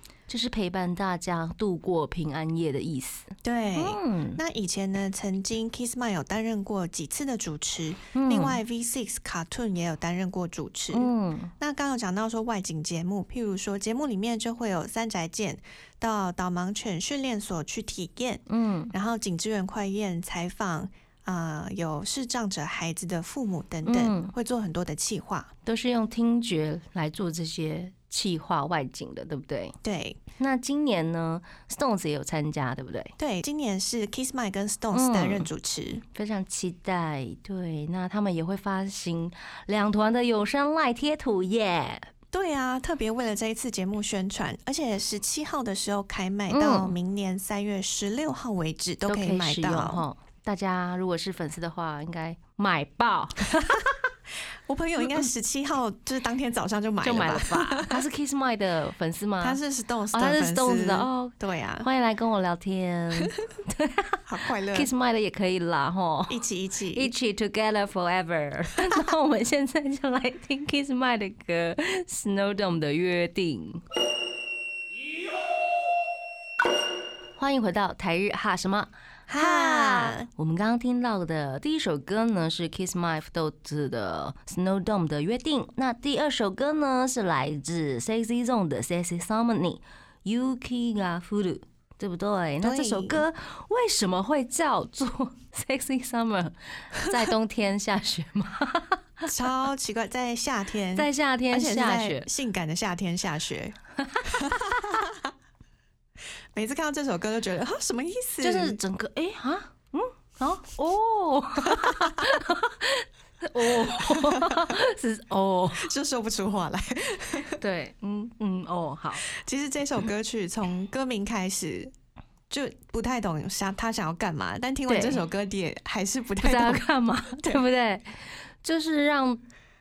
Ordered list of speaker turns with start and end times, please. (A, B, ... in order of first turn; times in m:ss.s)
0:00.3-0:04.4 A
0:03.4-0:25.5 B
0:08.2-0:08.6 A
0:10.9-0:11.5 A
0:18.5-0:18.9 A
0:23.8-0:24.3 A
0:25.7-0:29.8 A
0:29.8-0:30.2 B
0:30.4-0:33.1 A
0:33.2-0:36.0 B
0:34.9-0:35.5 A
0:36.1-0:42.1 A
0:42.3-0:50.0 B
0:46.5-0:47.0 A
0:49.1-0:53.9 A
0:54.7-0:58.0 B
0:57.0-0:59.6 A
0:59.4-1:01.9 B
1:00.1-1:06.4 A
1:04.3-1:04.9 B
1:06.3-1:07.1 B
1:06.9-1:13.8 A
1:17.4-1:39.3 A
1:19.3-1:20.3 B
1:32.6-1:33.2 B
1:39.3-1:45.3 B
1:41.0-1:42.3 A
1:44.0-1:44.3 A
1:46.5-1:48.8 B
1:48.4-1:55.9 A
1:51.6-1:52.3 B
1:53.6-1:54.8 B
1:55.7-1:57.6 B
1:57.6-1:59.3 A
1:59.2-2:01.9 B
2:02.5-2:06.8 B
2:04.9-2:05.2 A
2:06.4-2:09.4 A